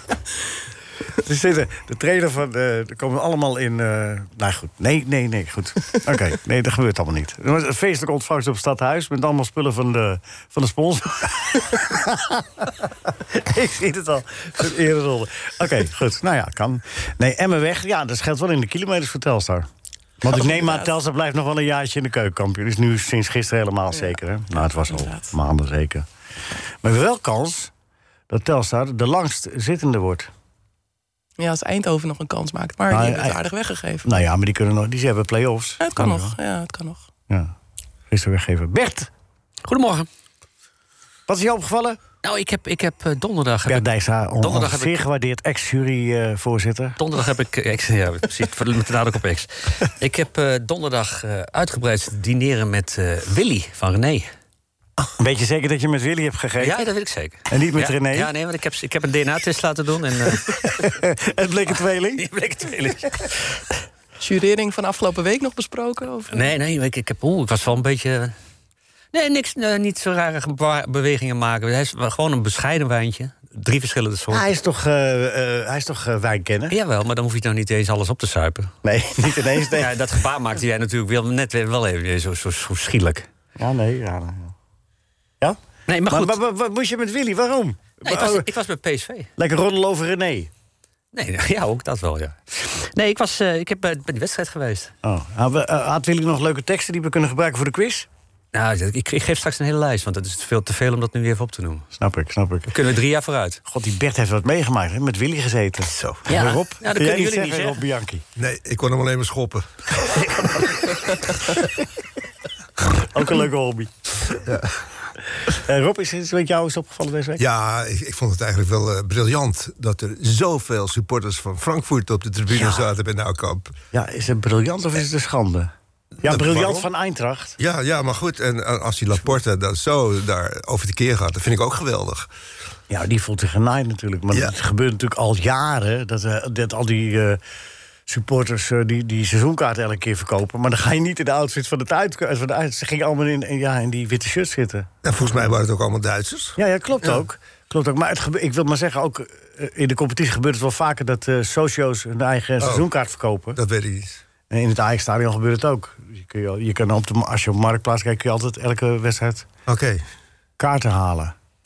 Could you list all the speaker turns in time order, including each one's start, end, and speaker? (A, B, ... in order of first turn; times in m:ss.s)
0:01.2-0:12.7 A
0:13.3-0:19.7 A
0:20.2-0:26.1 A
0:20.3-0:20.9 B
0:24.8-0:25.3 B
0:26.8-0:27.7 A
0:28.3-0:30.3 A
0:31.4-0:34.2 B
0:32.9-0:33.4 A
0:34.0-0:36.3 A
0:35.8-0:37.0 B
0:37.3-0:37.5 A
0:38.1-0:39.1 A
0:39.6-0:40.1 C
0:41.3-0:42.0 A
0:42.2-0:45.0 C
0:43.7-0:47.0 A
0:47.0-0:54.3 C
0:55.2-0:56.8 A
0:56.6-1:00.8 C
0:57.5-0:58.3 A
1:00.7-1:02.2 A
1:02.2-1:03.3 C
1:04.2-1:06.5 B
1:06.3-1:08.3 C
1:09.1-1:14.4 C
1:14.3-1:16.8 A
1:16.7-1:18.7 C
1:18.8-1:19.9 A
1:19.6-1:23.3 C
1:23.6-1:24.5 A
1:25.9-1:26.4 C
1:26.1-1:28.5 A
1:28.0-1:29.3 C
1:29.4-1:30.5 A
1:31.1-1:34.9 C
1:35.0-1:38.1 A
1:38.5-1:41.8 C
1:42.0-1:42.7 A
1:42.7-1:43.6 C
1:43.6-1:48.2 A
1:46.2-1:47.8 C
1:48.4-1:51.6 D
1:53.0-1:53.9 A
1:54.3-1:54.8 D
1:55.5-1:57.4 A
1:57.4-2:03.7 D
2:03.9-2:05.7 A
2:06.2-2:06.9 D
2:06.2-2:07.6 A
2:07.6-2:12.3 D
2:12.9-2:17.4 A
2:18.1-2:24.9 A
2:25.0-2:27.2 D
2:26.6-2:33.6 A
2:32.6-2:32.9 D
2:33.5-2:34.2 D
2:34.5-2:39.4 A
2:39.7-2:40.0 D
2:40.6-2:41.3 A